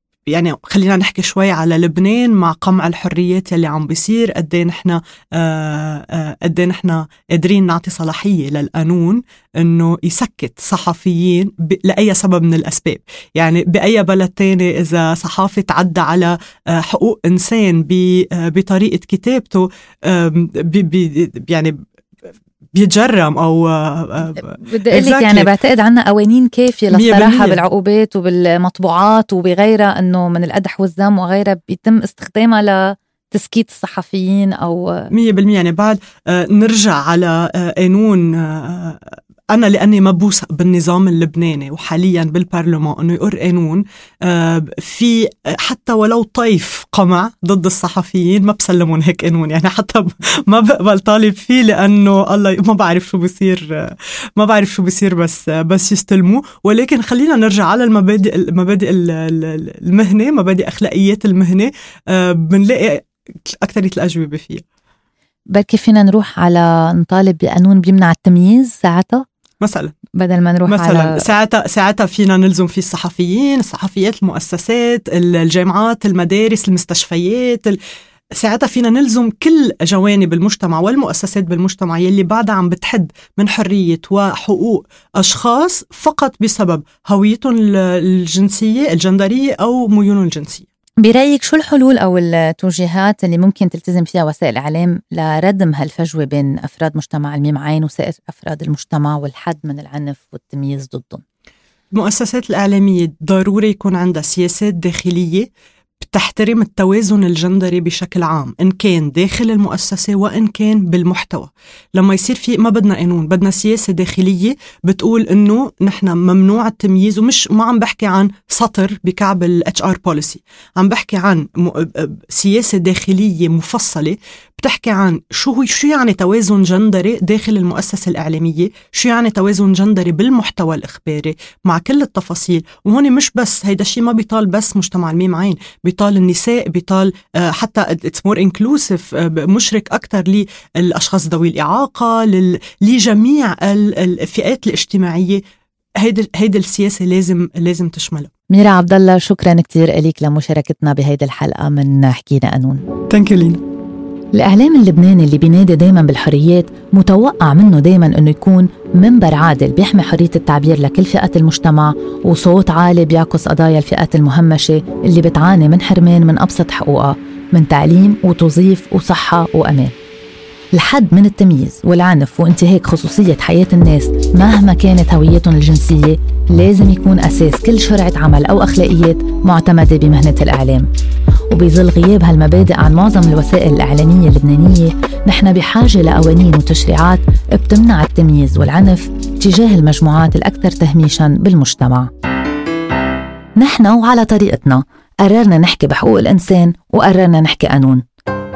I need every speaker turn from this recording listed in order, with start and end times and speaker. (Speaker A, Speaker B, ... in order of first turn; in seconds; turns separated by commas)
Speaker A: 0.3-21.8, Speaker A: 22.8-25.5, Speaker B: 24.4-32.8, Speaker A: 26.9-27.6, Speaker B: 33.3-35.1, Speaker A: 35.1-64.6, Speaker B: 65.5-69.2, Speaker A: 69.6-70.0, Speaker B: 70.1-71.3, Speaker A: 70.7-77.8, Speaker A: 78.4-90.7, Speaker B: 91.0-101.2, Speaker A: 101.9-105.5, Speaker A: 106.0-145.4, Speaker A: 146.0-148.3, Speaker B: 148.5-152.8, Speaker A: 153.1-153.6, Speaker B: 154.3-169.9, Speaker B: 170.7-180.9, Speaker B: 181.5-192.1, Speaker B: 193.6-198.0